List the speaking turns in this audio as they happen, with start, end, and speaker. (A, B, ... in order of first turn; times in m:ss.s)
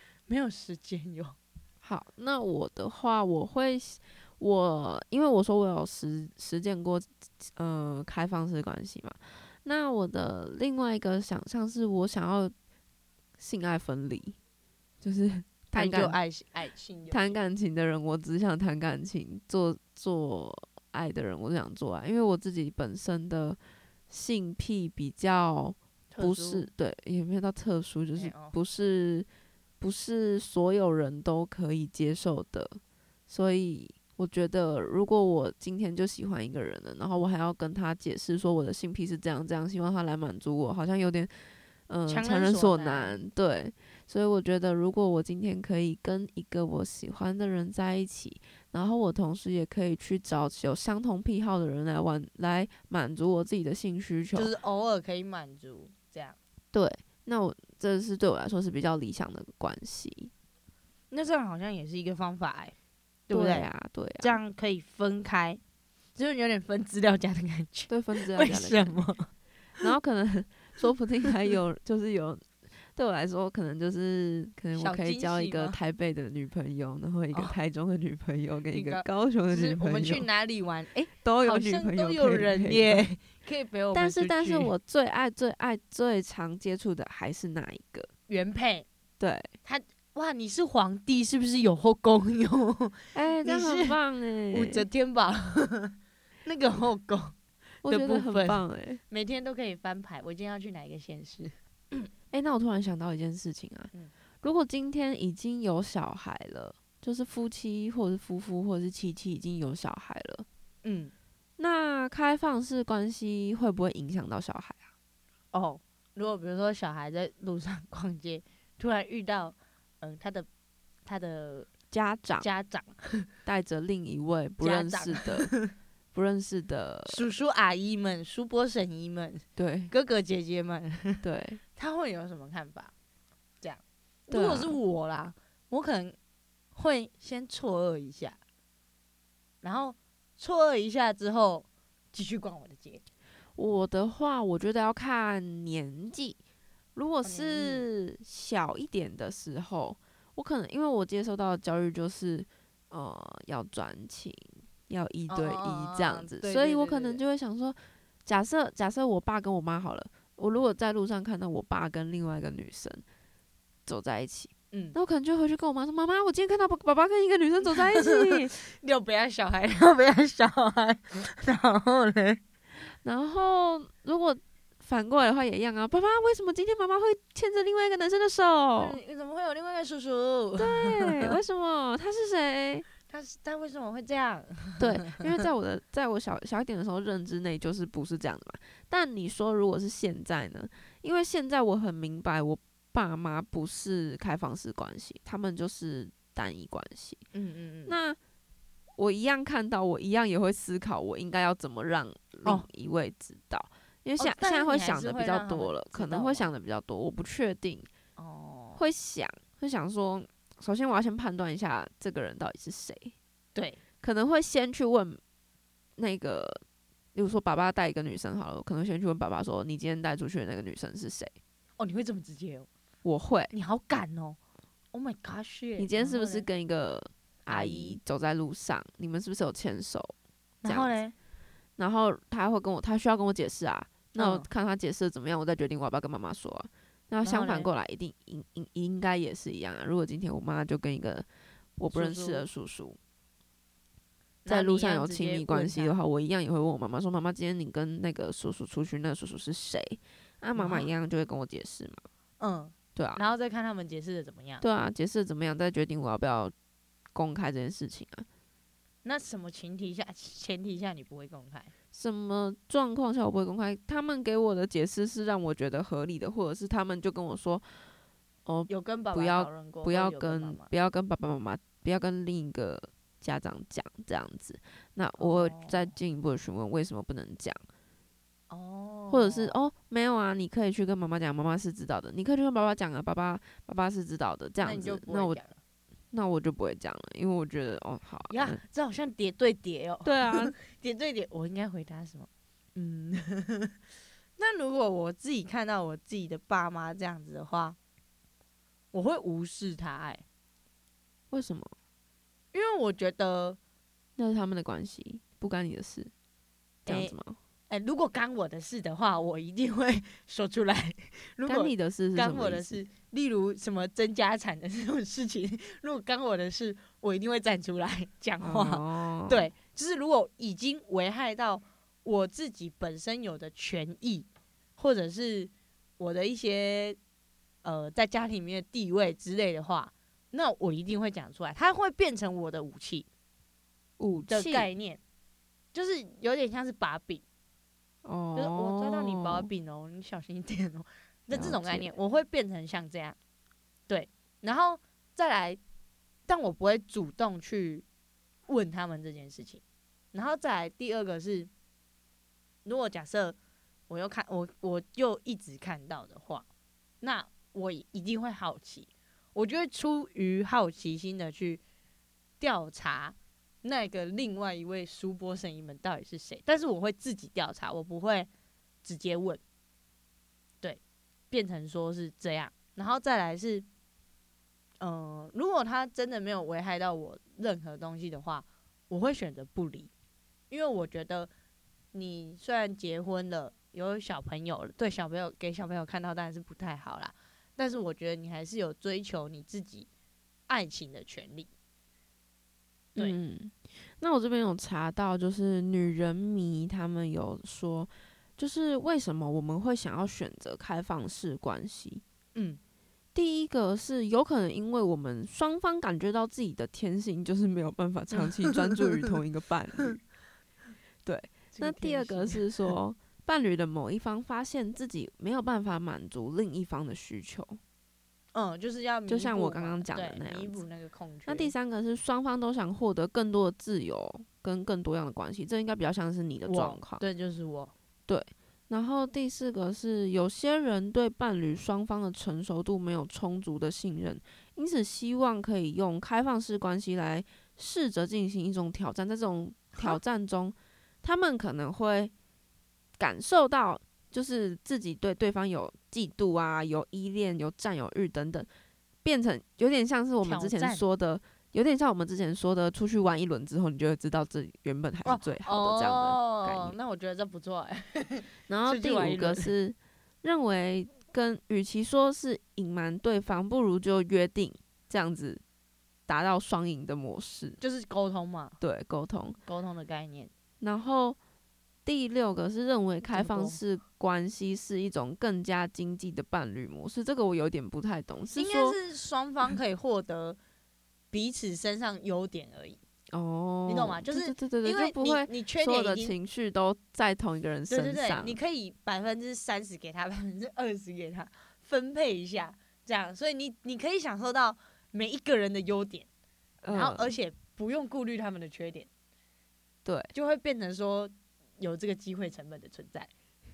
0:00.3-0:01.4 A
0:01.8-0:12.5 B
0:13.4-0:14.4 B
0:15.0-0:16.2 B
0:15.7-0:17.4 A
0:17.1-0:23.6 B
0:24.1-0:29.3 B
0:26.1-0:26.7 A
0:28.2-0:28.6 A
0:29.8-0:41.3 B
0:41.9-0:54.5 B
0:42.1-0:43.2 A
0:54.3-0:56.4 A
0:56.7-1:00.3 B
1:01.1-1:02.7 A
1:03.3-1:03.7 A
1:03.3-1:04.4 B
1:04.2-1:05.6 A
1:06.2-1:09.8 A
1:07.9-1:09.0 B
1:09.8-1:20.3 B
1:14.7-1:15.8 A
1:18.7-1:24.7 A
1:21.0-1:23.0 B
1:23.9-1:28.1 B
1:28.3-1:28.8 A
1:29.2-1:29.5 B
1:29.6-1:34.0 A
1:33.1-1:34.8 B
1:34.5-1:37.3 A
1:37.8-1:39.0 B
1:37.8-1:42.1 A
1:42.3-1:43.9 B
1:44.4-1:50.4 B
1:50.8-1:51.1 A
1:51.6-1:54.9 B
1:55.5-2:00.5 A
2:01.0-2:01.7 A
2:01.9-2:02.5 B
2:02.4-2:03.3 A
2:03.4-2:05.5 B
2:04.6-2:05.7 A
2:06.1-2:07.2 B
2:07.1-2:11.2 A
2:09.6-2:09.9 B
2:11.2-2:11.6 B
2:11.7-2:12.9 A
2:13.6-2:16.2 A
2:14.3-2:14.8 B
2:16.7-2:18.4 A
2:19.6-2:23.0 A
2:23.6-2:26.4 B
2:26.9-2:43.0 B
2:27.2-2:27.8 A
2:35.3-2:37.2 A
2:43.8-2:48.6 B
2:44.7-2:45.0 A
2:47.7-2:52.4 A
2:52.9-2:59.0 B
2:58.8-3:01.4 A
3:00.6-3:02.9 B
3:03.1-3:05.4 A
3:04.8-3:17.2 B
3:17.3-3:18.0 A
3:17.9-3:18.2 B
3:19.0-3:27.9 B
3:24.2-3:26.5 A
3:28.2-3:28.8 A
3:28.8-3:33.1 B
3:33.5-3:33.8 A
3:34.0-3:35.2 B
3:36.0-3:36.6 B
3:37.1-3:41.3 B
3:41.8-3:42.7 A
3:43.0-3:43.5 B
3:43.5-3:44.4 A
3:44.9-3:46.5 A
3:45.8-3:51.0 B
3:47.5-3:48.0 A
3:50.6-3:51.1 A
3:51.8-4:03.0 B
3:54.2-3:54.5 A
3:57.2-3:57.7 A
4:01.9-4:02.4 A
4:04.4-4:05.9 A
4:04.5-4:12.0 B
4:10.6-4:10.9 A
4:12.4-4:14.6 A
4:13.0-4:13.2 B
4:14.6-4:16.5 B
4:17.1-4:18.2 B
4:19.0-4:21.7 A
4:21.9-4:27.7 B
4:28.4-4:37.6 B
4:28.7-4:30.7 A
4:35.2-4:35.9 A
4:38.5-4:39.6 A
4:39.1-4:45.4 B
4:44.6-4:45.6 A
4:46.1-4:48.6 B
4:48.3-4:53.7 A
4:50.0-4:50.5 B
4:54.4-4:57.8 A
4:58.9-5:00.2 A
5:01.3-5:01.7 B
5:02.5-5:03.6 A
5:04.2-5:06.1 B
5:06.8-5:07.1 A
5:06.9-5:07.4 B
5:07.7-5:27.0 A
5:11.4-5:12.8 B
5:18.4-5:19.5 B
5:27.6-5:33.1 A
5:34.0-5:34.7 B
5:34.3-5:35.0 A
5:35.7-5:37.2 A
5:38.0-5:39.5 B
5:38.3-5:43.2 A
5:41.3-5:41.9 B
5:43.9-5:45.6 A
5:46.3-5:47.8 A
5:48.5-5:49.6 A
5:50.1-5:51.5 A
5:52.6-5:53.4 A
5:53.9-5:56.4 A
5:57.0-6:01.6 A
6:02.4-6:08.3 A
6:08.8-6:09.4 A
6:11.3-6:13.6 A
6:14.8-6:19.9 A
6:20.5-6:21.3 A
6:21.9-6:29.9 A
6:30.5-6:31.5 A
6:33.0-6:42.0 B
6:42.3-6:42.6 A
6:43.1-6:50.0 B
6:48.1-6:49.1 A
6:51.0-6:57.6 B
6:51.5-6:52.7 A
6:58.3-7:01.5 A
6:59.1-7:00.6 B
7:01.3-7:07.0 B
7:06.4-7:07.7 A
7:08.1-7:22.1 B
7:19.7-7:20.0 A
7:23.0-7:28.5 B
7:29.0-7:36.8 B
7:30.2-7:30.8 A
7:35.0-7:39.5 A
7:38.5-7:45.4 B
7:46.1-7:47.6 B
7:47.6-7:48.6 A
7:48.6-7:49.4 B
7:49.4-7:50.3 A
7:50.6-7:51.2 B
7:51.8-7:58.8 B
7:53.1-7:53.6 A
7:58.3-8:00.4 A
8:01.1-8:02.8 A
8:03.1-8:08.4 B
8:03.7-8:06.2 A
8:07.7-8:16.1 A
8:16.6-8:17.1 B
8:16.7-8:18.9 A
8:19.8-8:20.1 B
8:20.1-8:23.1 A